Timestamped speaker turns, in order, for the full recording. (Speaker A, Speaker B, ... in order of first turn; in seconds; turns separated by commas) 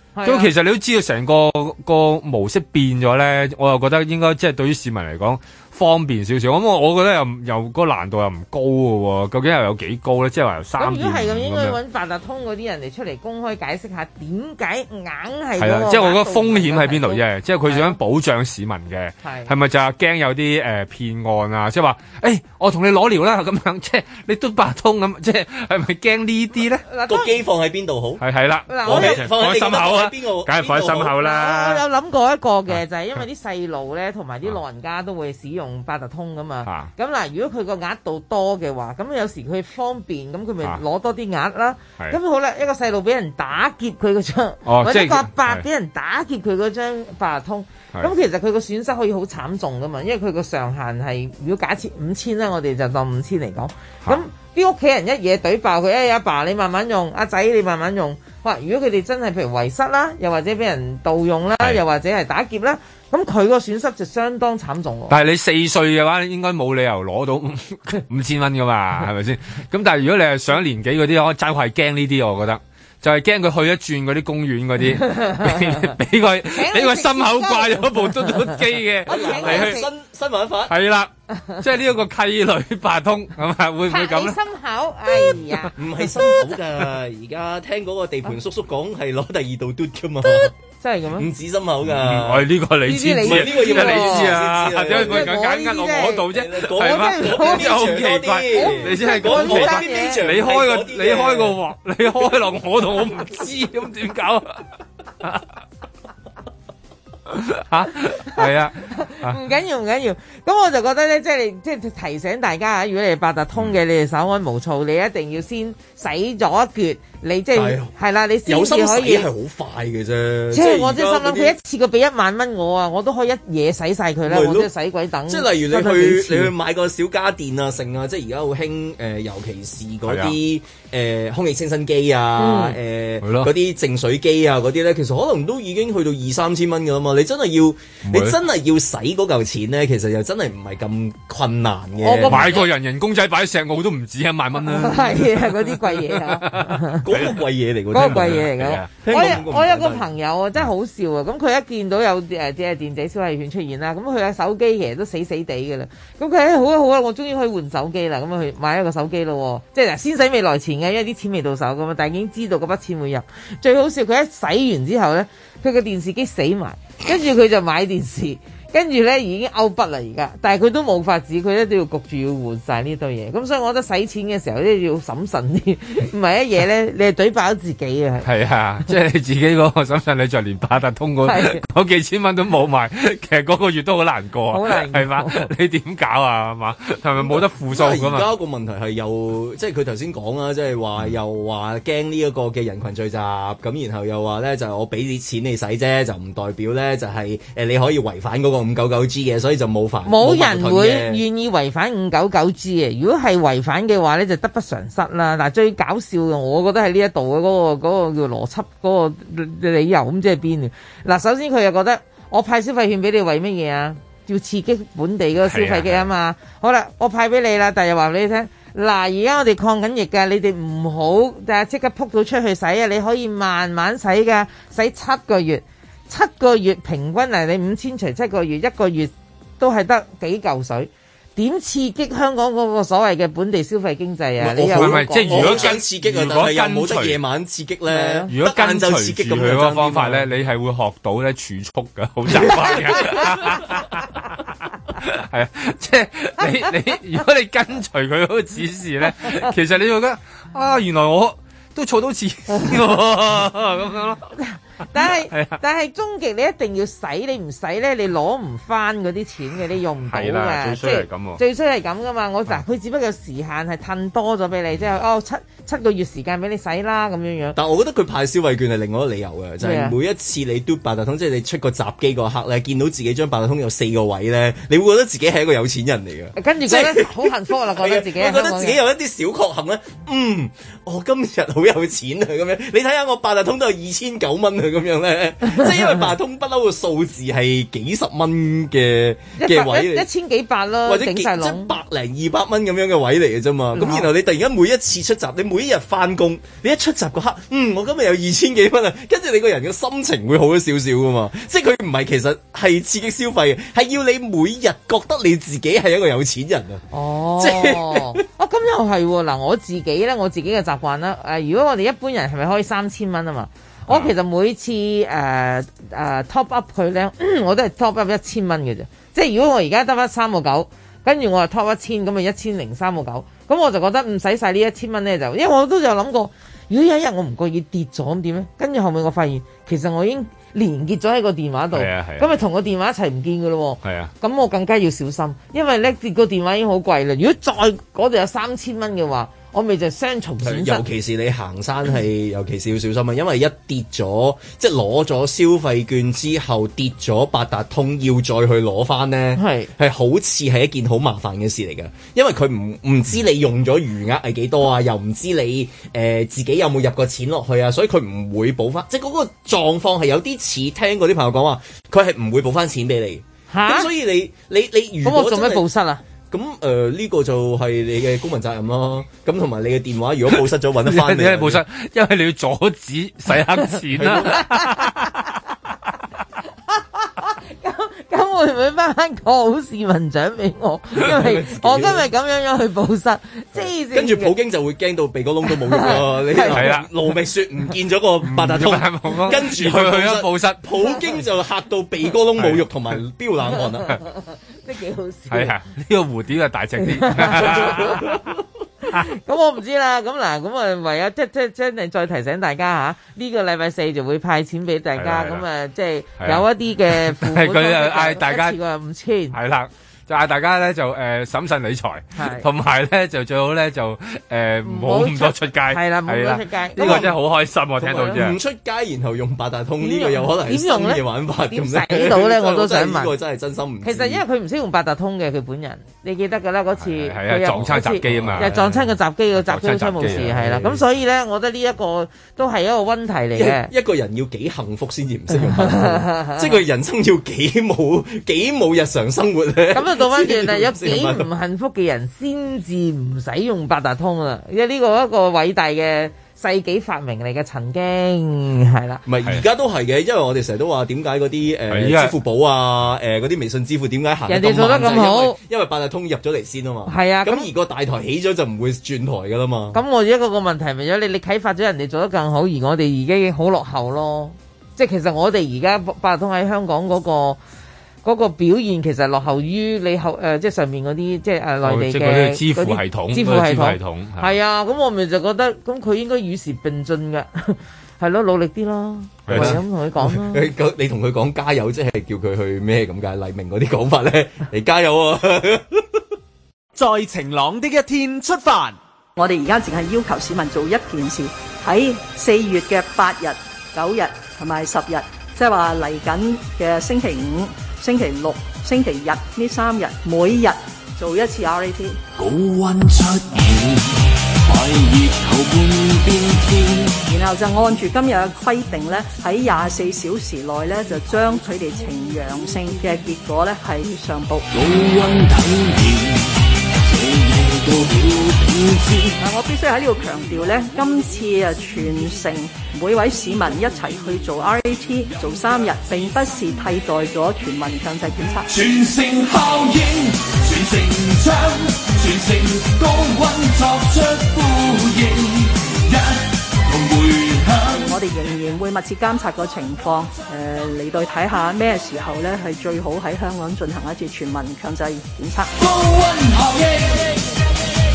Speaker A: 0.2-0.5, Speaker B: 0.2-11.8, Speaker A: 10.8-18.0, Speaker B: 15.6-26.9, Speaker A: 19.2-19.5, Speaker A: 26.9-27.4, Speaker C: 27.1-28.2, Speaker B: 28.2-31.8, Speaker A: 28.7-29.3, Speaker C: 28.9-31.2, Speaker A: 31.2-65.1, Speaker B: 36.6-36.9, Speaker B: 44.7-45.6, Speaker B: 65.1-79.8, Speaker A: 75.0-75.9, Speaker A: 76.5-79.9, Speaker C: 79.1-80.8, Speaker B: 80.7-84.4, Speaker A: 81.3-81.6, Speaker A: 83.9-85.7, Speaker B: 85.2-85.5, Speaker C: 85.8-90.5, Speaker A: 90.2-91.3, Speaker C: 91.2-92.5, Speaker B: 91.9-104.6, Speaker A: 92.9-97.9, Speaker C: 93.2-95.4, Speaker C: 96.3-101.6, Speaker A: 98.5-100.2, Speaker B: 107.3-109.4, Speaker A: 108.3-119.3, Speaker C: 117.5-117.9, Speaker C: 118.5-121.6, Speaker A: 120.5-126.5, Speaker C: 124.3-124.7, Speaker C: 125.3-142.6, Speaker B: 130.1-130.3, Speaker A: 132.4-132.8, Speaker B: 133.2-133.5, Speaker B: 138.1-138.4, Speaker A: 142.0-142.7, Speaker B: 142.2-147.3, Speaker A: 144.7-147.0, Speaker C: 147.0-150.1, Speaker A: 147.9-178.3, Speaker B: 147.9-148.9, Speaker B: 178.2-188.3, Speaker A: 181.2-181.6, Speaker A: 184.5-185.5, Speaker C: 187.2-201.2, Speaker A: 200.1-235.7, Speaker B: 215.4-216.1, Speaker C: 234.4-240.3, Speaker B: 234.7-237.2, Speaker A: 237.9-238.3, Speaker B: 238.3-244.1, Speaker B: 245.0-254.3, Speaker A: 254.4-267.6, Speaker B: 255.3-255.6, Speaker B: 260.1-261.4, Speaker C: 267.6-290.1, Speaker A: 269.6-269.9, Speaker A: 276.4-278.8, Speaker A: 285.5-285.9, Speaker A: 289.4-291.7, Speaker C: 290.9-306.8, Speaker A: 293.8-294.1, Speaker A: 306.9-340.9, Speaker C: 307.4-308.2, Speaker B: 331.7-332.3, Speaker B: 333.8-334.1, Speaker C: 340.4-365.6, Speaker A: 349.4-349.7, Speaker A: 363.5-363.9, Speaker A: 365.1-366.0, Speaker C: 366.3-371.6, Speaker B: 370.3-375.2, Speaker C: 373.9-374.4, Speaker A: 374.2-374.9, Speaker A: 376.7-384.3, Speaker C: 381.0-382.1, Speaker C: 383.6-394.0, Speaker A: 385.5-386.6, Speaker B: 386.5-386.9, Speaker B: 388.3-390.6, Speaker B: 392.4-392.6, Speaker A: 394.6-395.6, Speaker B: 395.3-398.2, Speaker A: 396.9-398.1, Speaker A: 398.9-409.4, Speaker B: 405.0-405.4, Speaker B: 406.2-408.6, Speaker B: 409.3-418.4, Speaker A: 412.2-412.5, Speaker A: 414.6-417.1, Speaker C: 416.8-417.2, Speaker C: 417.8-424.2, Speaker A: 417.9-418.2, Speaker A: 419.8-423.1, Speaker A: 423.8-433.7, Speaker B: 426.8-430.7, Speaker C: 428.1-428.6, Speaker C: 433.4-441.3, Speaker A: 435.3-436.6, Speaker A: 439.7-449.0, Speaker C: 449.1-459.8, Speaker B: 451.7-452.1, Speaker A: 454.3-455.4, Speaker A: 456.9-457.5, Speaker A: 459.7-467.4, Speaker A: 468.0-480.5, Speaker B: 471.6-474.3, Speaker B: 479.3-479.6, Speaker C: 479.3-486.0, Speaker D: 486.8-488.8, Speaker E: 489.2-502.0, Speaker F: 502.2-507.0, Speaker E: 507.1-514.5, Speaker F: 514.5-519.2, Speaker E: 519.2-528.5, Speaker F: 528.5-537.9, Speaker E: 537.7-545.5, Speaker F: 545.6-547.2